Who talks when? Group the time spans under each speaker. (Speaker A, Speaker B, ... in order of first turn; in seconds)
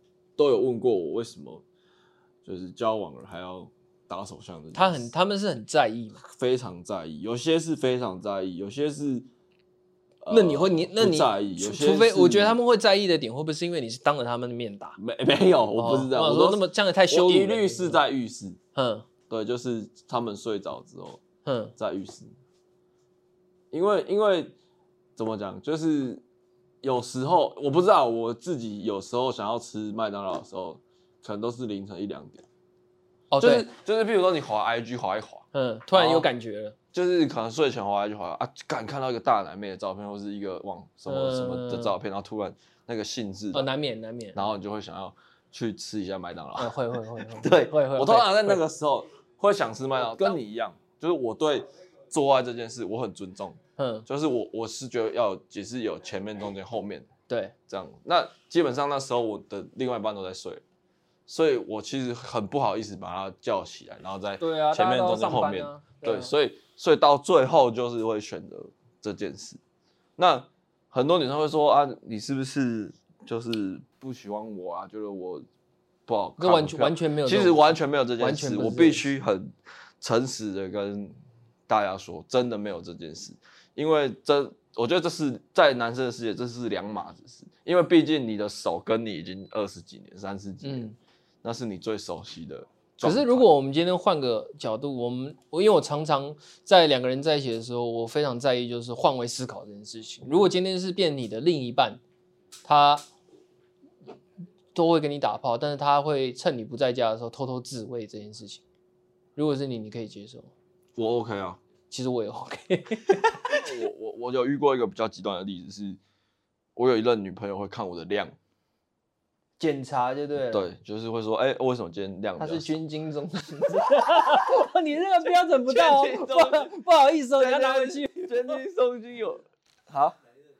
Speaker A: 0.4-1.6, 2.4-5.1, 6.2-9.3, 10.2-12.6, 15.0-18.6, 19.3-21.2, 21.8-22.3, 23.7-24.6, 25.2-26.2, 26.8-32.5, 33.4-36.3, 36.9-43.7, 44.4-46.8, 47.3-57.1, 57.7-60.6, 61.3-69.6, 70.2-75.5, 76.1-81.2, 81.7-90.9, 91.4-93.5, 111.0-111.6, 113.3-116.0, 116.8-118.3, 120.5-122.7, 125.3-126.8, 127.4-130.2
Speaker B: 4.7-6.2, 10.3-15.0, 15.8-18.0, 18.8-19.1, 21.4-21.7, 33.3-33.7, 35.5-36.8, 41.1-42.0, 43.5-44.4, 46.6-48.6, 50.0-50.4, 53.8-54.1, 57.3-57.5, 64.4-66.3, 76.4-79.1, 90.6-91.0, 93.0-102.0, 102.7-103.0, 104.7-108.6, 109.4-110.5, 111.9-113.7, 119.6-120.7, 122.4-128.6